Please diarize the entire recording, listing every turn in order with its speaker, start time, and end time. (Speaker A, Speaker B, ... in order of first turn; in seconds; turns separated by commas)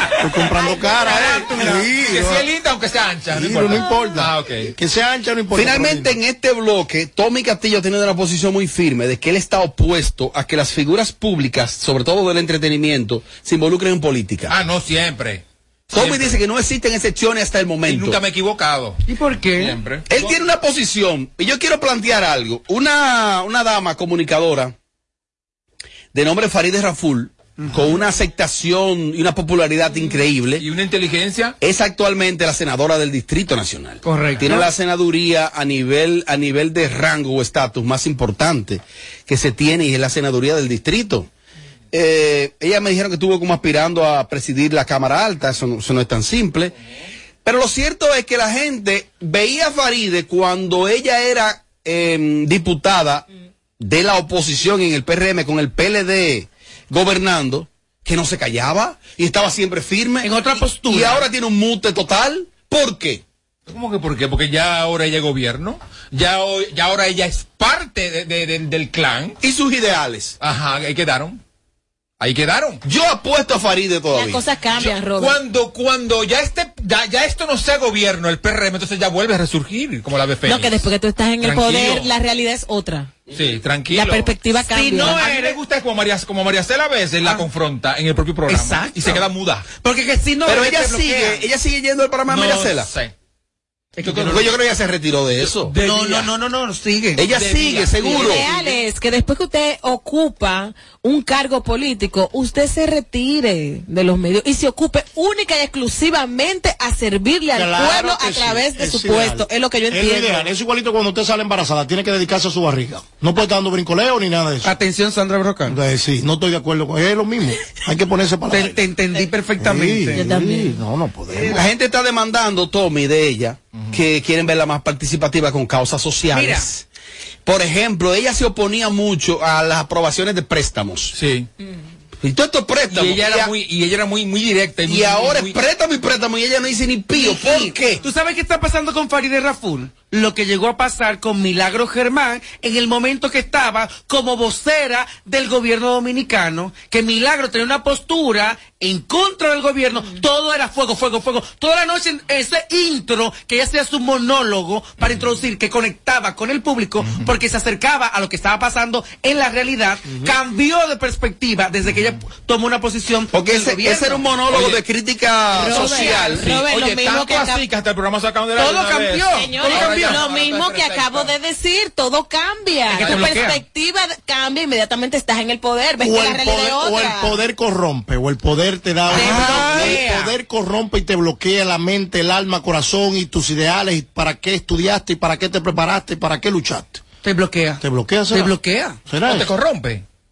Speaker A: 0.2-2.5, Speaker B: 1.1-4.7, Speaker A: 3.3-6.2, Speaker C: 5.5-14.5, Speaker B: 14.5-16.4, Speaker C: 15.9-18.2, Speaker B: 17.9-19.0, Speaker D: 19.1-19.8, Speaker B: 19.6-20.4, Speaker C: 20.1-24.7, Speaker C: 26.1-30.6, Speaker B: 30.6-31.6, Speaker C: 31.6-41.3, Speaker D: 34.0-34.7, Speaker C: 41.9-46.7, Speaker C: 47.5-53.2, Speaker C: 53.8-63.2, Speaker D: 60.2-61.3, Speaker B: 63.7-69.4, Speaker C: 69.4-70.3, Speaker B: 70.4-71.4, Speaker B: 72.2-72.8, Speaker C: 72.8-74.4, Speaker E: 74.1-75.4, Speaker B: 74.8-80.9, Speaker E: 80.5-83.1, Speaker B: 81.4-82.1, Speaker B: 83.3-84.3, Speaker E: 83.9-85.2, Speaker D: 84.7-85.6, Speaker B: 85.0-89.7, Speaker D: 88.5-91.5, Speaker C: 90.5-92.9, Speaker B: 92.3-93.1, Speaker D: 94.0-94.5, Speaker B: 94.0-94.5, Speaker C: 94.3-95.7, Speaker B: 95.4-96.3, Speaker D: 95.8-97.2, Speaker C: 97.2-98.4, Speaker B: 97.3-98.7, Speaker D: 98.0-98.7, Speaker E: 98.1-110.5, Speaker A: 107.5-114.7, Speaker D: 114.6-115.8, Speaker A: 115.7-118.8, Speaker D: 118.5-120.2, Speaker A: 119.6-121.7, Speaker E: 120.1-120.8, Speaker C: 121.3-126.8, Speaker D: 126.3-126.7, Speaker C: 127.5-131.2, Speaker B: 131.2-131.5, Speaker C: 132.2-133.5, Speaker B: 132.9-135.6, Speaker C: 134.9-138.0, Speaker D: 137.1-164.3, Speaker C: 163.3-166.4, Speaker B: 164.5-164.8, Speaker B: 165.6-171.3, Speaker E: 165.6-167.6, Speaker D: 165.7-166.4, Speaker D: 168.6-170.2, Speaker E: 169.3-177.4, Speaker D: 172.9-173.6, Speaker A: 176.0-187.0, Speaker D: 179.1-180.3, Speaker C: 179.2-180.0, Speaker D: 187.2-189.0, Speaker A: 187.8-188.6, Speaker A: 189.1-189.5, Speaker B: 189.3-190.0